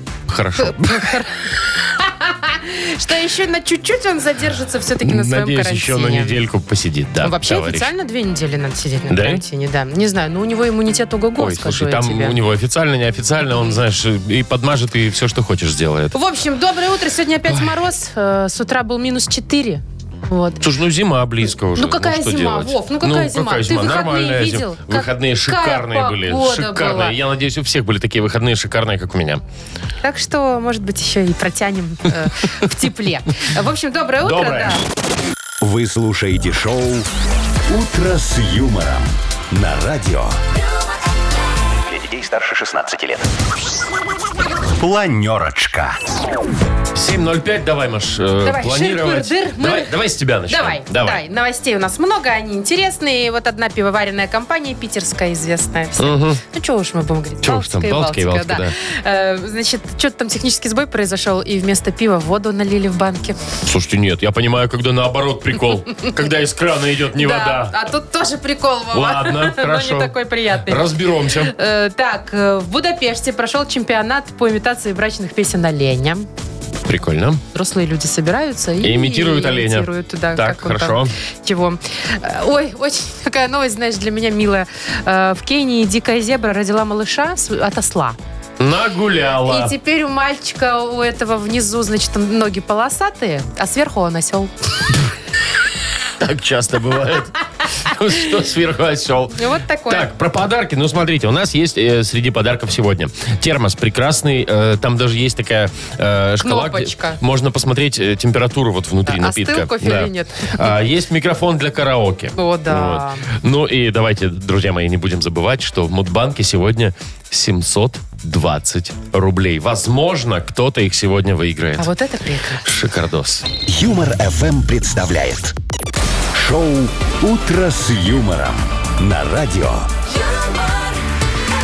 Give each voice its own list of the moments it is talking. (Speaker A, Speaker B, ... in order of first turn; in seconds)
Speaker A: 0.3-1.2, 5.0-7.9, 9.1-9.4, 11.4-16.1, 17.5-17.7, 20.6-29.4, 34.2-34.8, 46.9-51.2, 56.0-56.4, 57.4-58.7, 63.6-67.9, 68.9-70.1, 70.7-71.5, 76.8-77.4, 78.8-81.1, 88.6-89.7, 96.2-121.9, 122.6-123.5
Speaker B: 0.6-1.3, 1.9-6.4, 7.2-12.3, 13.5-13.8, 16.1-20.6, 21.7-27.1, 30.0-34.8, 48.4-50.0, 50.5-63.4, 67.2-76.3, 77.5-88.2, 89.4-94.5, 99.3-100.1, 106.4-107.2, 109.0-110.7, 112.3-113.2, 121.8-122.6
Speaker C: 35.6-37.1, 37.7-40.4, 41.9-43.3, 44.7-46.0, 123.7-125.5, 126.3-129.9